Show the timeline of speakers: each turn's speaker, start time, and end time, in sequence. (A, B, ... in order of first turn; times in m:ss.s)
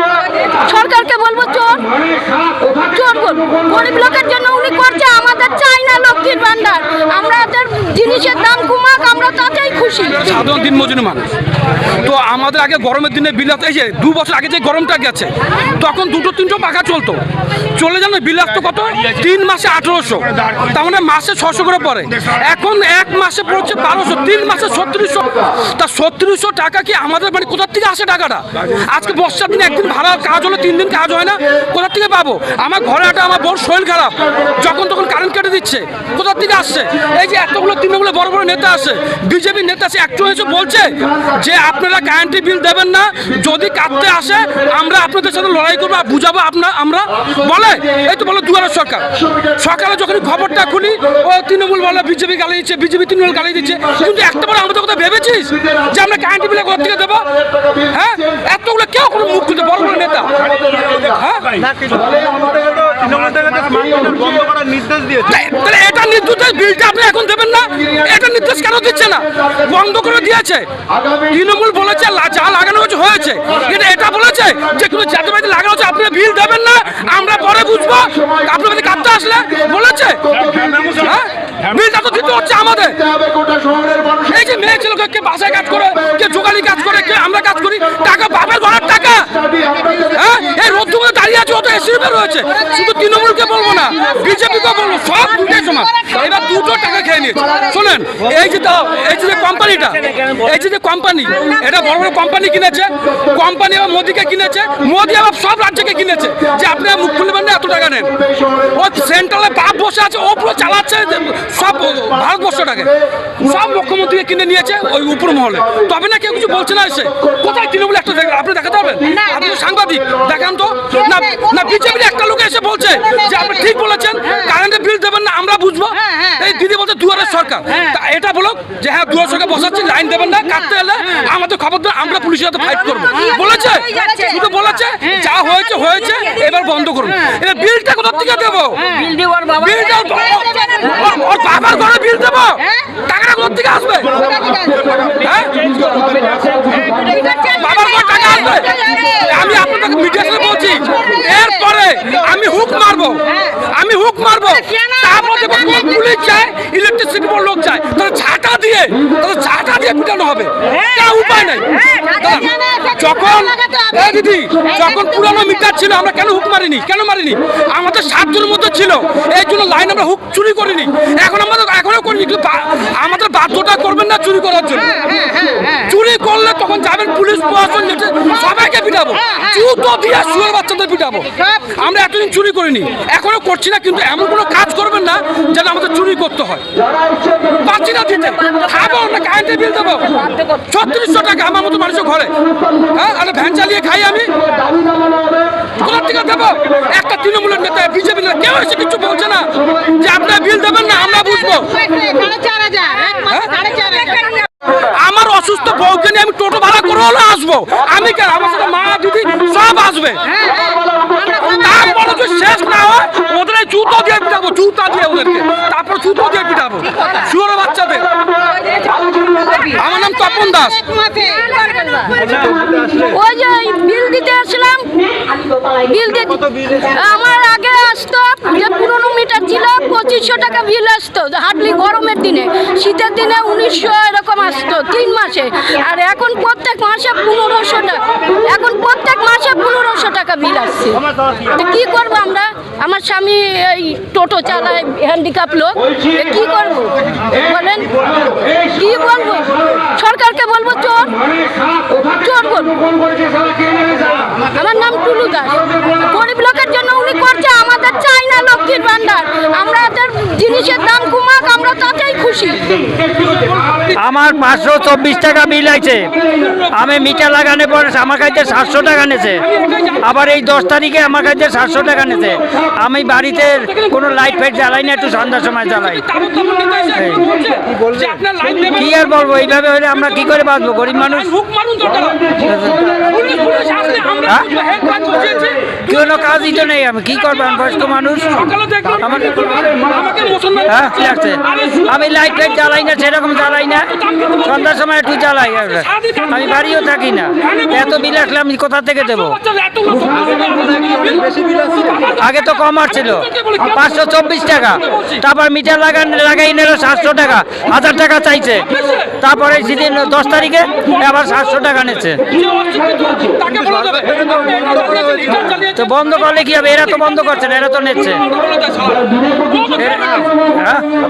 0:00.5-0:10.4 A
0:10.1-0:11.3 B
0:12.0-0:17.2 B
0:17.7-1:00.4 B
1:00.6-1:01.0 C
1:01.0-1:01.6 B
1:01.7-1:05.2 C
1:05.2-1:23.1 B
1:24.1-2:19.0 B
2:19.0-2:19.4 C
2:19.5-2:24.2 B
2:24.2-2:25.0 C
2:25.2-2:26.1 B
2:26.2-2:27.4 C
2:27.4-2:55.0 B
2:28.8-2:29.0 C
2:42.6-2:42.9 C
2:55.1-2:55.7 C
2:55.8-3:06.6 B
3:07.5-3:14.3 B
3:15.7-3:21.8 B
3:21.8-3:24.4 C
3:22.0-3:23.2 A
3:23.3-3:23.6 B
3:23.8-3:24.2 A
3:24.9-3:30.3 B
3:30.4-3:30.7 C
3:31.4-3:38.1 B
3:39.7-3:40.9 B
3:41.1-3:42.2 A
3:41.9-3:43.0 C
3:43.0-4:12.9 A
4:13.5-4:23.0 A
4:23.9-4:26.1 D
4:26.4-4:26.7 B
4:26.7-4:29.4 D
4:29.4-4:30.1 B
4:30.0-4:36.0 D
4:35.8-4:40.2 B
4:37.0-4:37.2 D
4:38.8-4:41.3 D
4:40.9-4:42.3 B
4:42.4-4:42.8 D
4:43.0-4:51.9 B
4:45.9-4:48.4 D
4:49.0-4:49.4 D
4:50.7-4:53.9 D
4:52.5-4:52.8 B
4:53.9-4:54.7 B
4:54.4-4:59.4 D
4:55.5-4:56.8 B
4:57.4-4:58.2 B
4:59.1-5:04.0 B
5:02.2-5:08.7 D
5:04.6-5:05.2 B
5:08.7-5:09.2 B
5:09.2-5:12.2 D
5:12.3-5:17.6 B
5:15.8-5:18.2 D
5:18.1-5:20.3 B
5:19.8-5:20.9 D